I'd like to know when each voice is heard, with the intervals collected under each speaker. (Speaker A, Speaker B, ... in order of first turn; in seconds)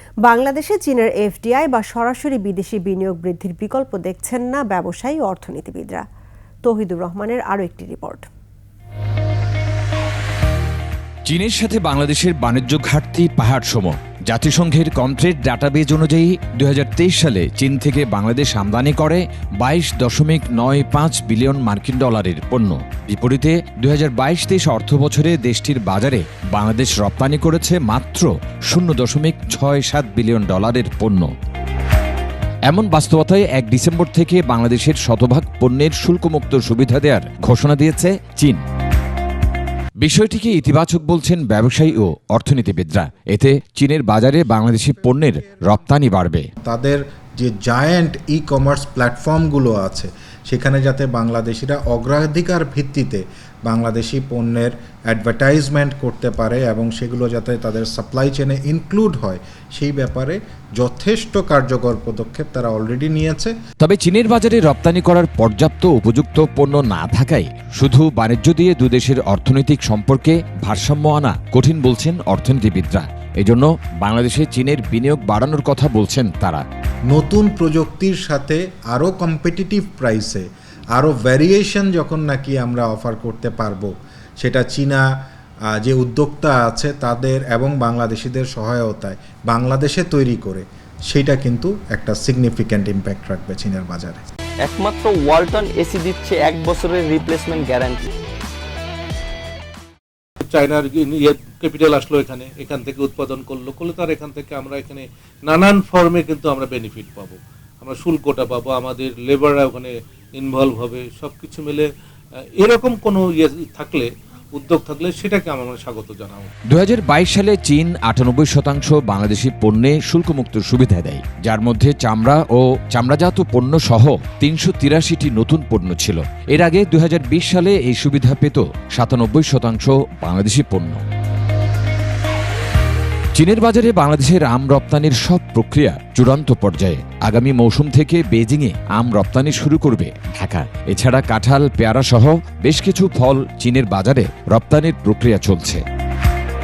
Speaker A: 0.2-6.0, 6.6-8.3
Speaker B: 11.3-31.3, 32.7-38.6, 40.0-46.5, 63.8-76.6, 116.7-131.0, 133.4-145.8
Speaker C: 46.6-63.5, 77.1-85.0, 85.7-94.2
Speaker D: 94.7-98.0
Speaker E: 100.4-111.9, 112.4-116.5